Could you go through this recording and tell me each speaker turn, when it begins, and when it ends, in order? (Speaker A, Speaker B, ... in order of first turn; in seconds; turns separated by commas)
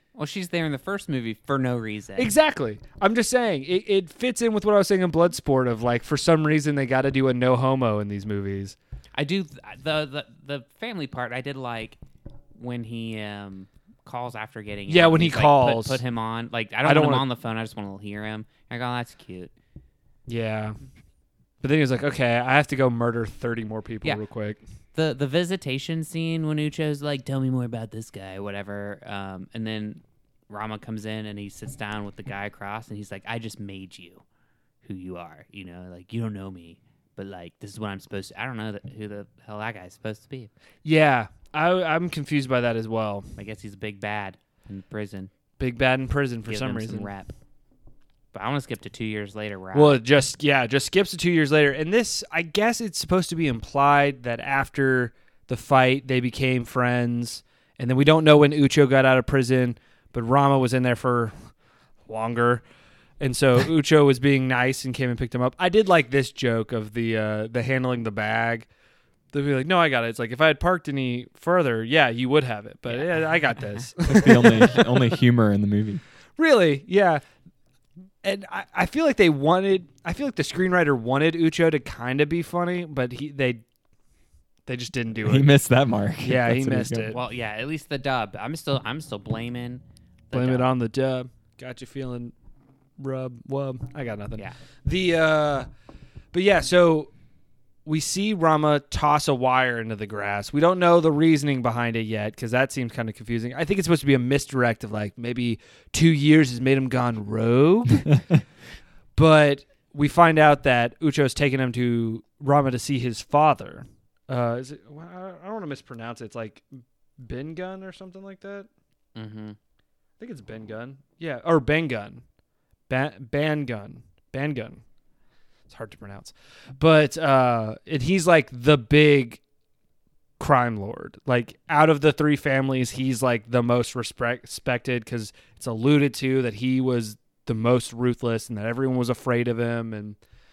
Speaker A: 0.2-2.3, Speaker B: 2.2-8.8, Speaker A: 9.2-12.0, Speaker A: 12.6-19.5, Speaker B: 14.9-16.0, Speaker B: 16.9-17.3, Speaker B: 20.3-20.8, Speaker B: 21.6-24.6, Speaker A: 24.9-34.2, Speaker A: 34.9-40.5, Speaker B: 40.8-43.3, Speaker A: 43.4-45.3, Speaker B: 45.6-47.1, Speaker A: 46.5-47.3, Speaker A: 48.3-50.0, Speaker B: 49.7-61.3, Speaker B: 62.1-62.6, Speaker B: 63.2-68.7, Speaker B: 69.3-75.1, Speaker A: 72.9-73.9, Speaker C: 74.1-76.0, Speaker B: 76.4-77.2, Speaker B: 78.2-83.6, Speaker B: 84.7-85.5, Speaker C: 85.2-87.1, Speaker B: 86.2-87.2, Speaker A: 87.1-90.7, Speaker B: 90.3-92.3, Speaker B: 93.0-95.7, Speaker B: 96.3-97.1, Speaker B: 97.9-108.1, Speaker B: 109.2-116.7, Speaker B: 117.2-118.7, Speaker A: 119.2-119.6, Speaker B: 120.2-122.2, Speaker B: 122.9-124.8, Speaker B: 125.7-129.4, Speaker B: 130.4-140.2